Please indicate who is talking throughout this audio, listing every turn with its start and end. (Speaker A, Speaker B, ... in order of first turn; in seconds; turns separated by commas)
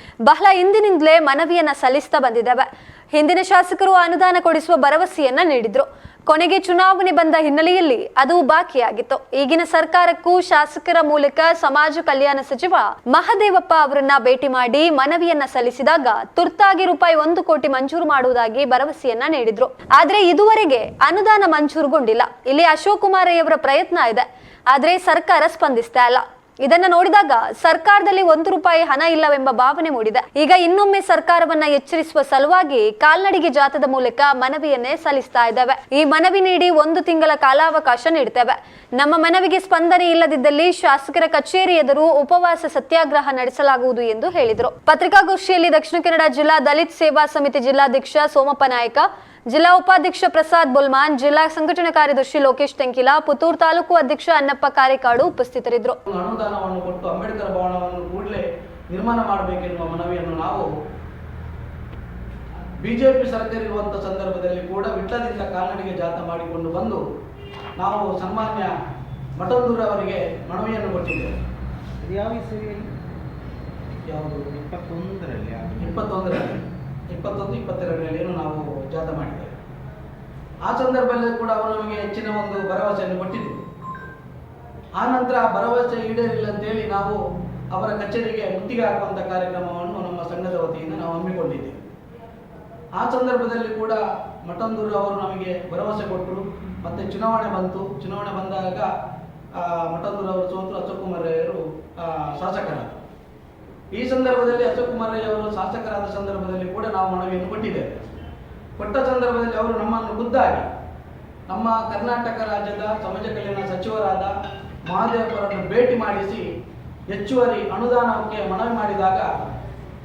Speaker A: 0.2-56.0, Speaker B: 56.1-60.7, Speaker B: 62.8-67.0, Speaker B: 67.8-68.7, Speaker B: 69.4-71.3, Speaker C: 72.0-72.8, Speaker B: 74.1-74.5, Speaker C: 74.5-75.9, Speaker B: 75.8-76.6, Speaker B: 77.1-79.5, Speaker B: 80.7-83.6, Speaker B: 85.0-87.2, Speaker B: 87.7-91.9, Speaker B: 93.0-98.9, Speaker B: 99.5-102.9, Speaker B: 103.9-108.0, Speaker B: 108.8-110.7, Speaker B: 111.5-114.3, Speaker B: 114.9-116.5, Speaker B: 117.1-119.3